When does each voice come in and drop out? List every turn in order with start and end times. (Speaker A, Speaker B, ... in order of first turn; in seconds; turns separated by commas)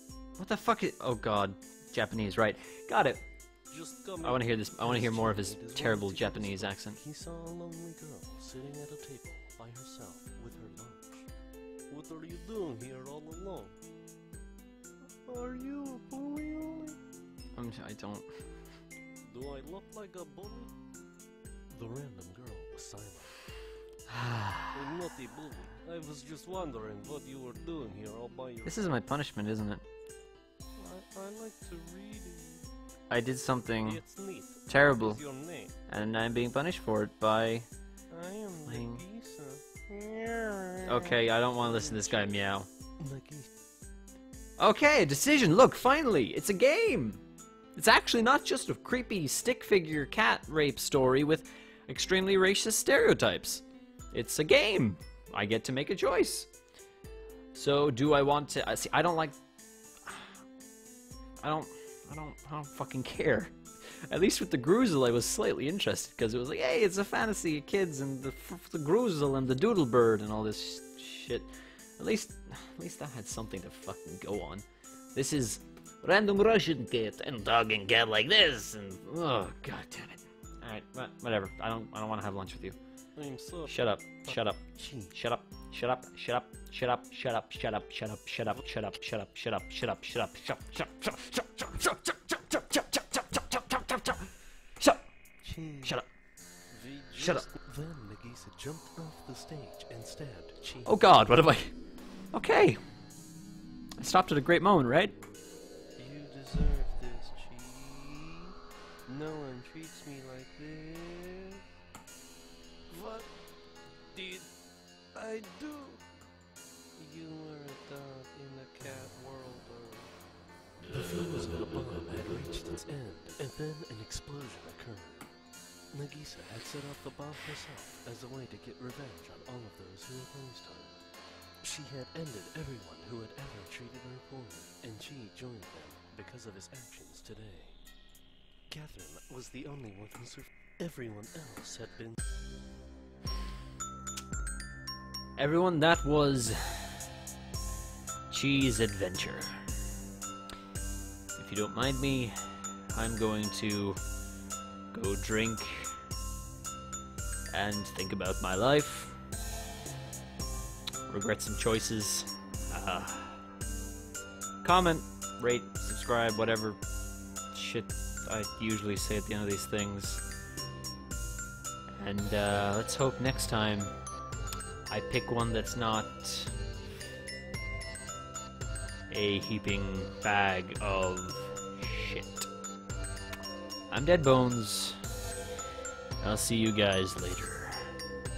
Speaker A: 0.4-3.2, Speaker B: 3.7-11.3, Speaker A: 4.2-7.0, Speaker B: 11.9-13.8, Speaker B: 15.2-17.0, Speaker A: 17.6-18.3, Speaker B: 19.2-20.7, Speaker B: 21.7-23.4, Speaker A: 24.1-24.8, Speaker B: 24.7-29.0, Speaker A: 28.6-29.9, Speaker B: 30.8-32.7, Speaker A: 33.1-34.0, Speaker B: 33.8-35.7, Speaker A: 34.7-35.2, Speaker A: 35.9-37.7, Speaker B: 38.1-43.5, Speaker A: 38.6-39.0, Speaker A: 40.8-42.7, Speaker A: 44.6-47.2, Speaker A: 47.8-56.5, Speaker A: 57.5-59.4, Speaker A: 60.0-60.4, Speaker A: 61.4-82.8, Speaker B: 83.2-85.2, Speaker A: 83.7-95.0, Speaker B: 95.4-96.0, Speaker B: 96.7-101.0, Speaker A: 97.2-97.5, Speaker A: 100.8-101.8, Speaker A: 102.3-102.8, Speaker A: 104.0-105.2, Speaker B: 106.0-108.5, Speaker B: 109.1-111.6, Speaker B: 112.9-113.3, Speaker B: 114.1-114.5, Speaker B: 115.1-116.0, Speaker B: 117.0-120.1, Speaker B: 120.9-125.3, Speaker B: 125.9-131.0, Speaker B: 131.6-137.8, Speaker B: 138.7-142.2, Speaker A: 145.4-147.1, Speaker A: 148.3-149.6, Speaker A: 151.3-154.0, Speaker A: 154.9-155.9, Speaker A: 157.5-159.2, Speaker A: 161.1-163.4, Speaker A: 164.6-166.8, Speaker A: 167.5-170.2, Speaker A: 172.0-173.9, Speaker A: 174.9-176.5, Speaker A: 179.1-182.5, Speaker A: 183.9-185.0, Speaker A: 186.2-187.9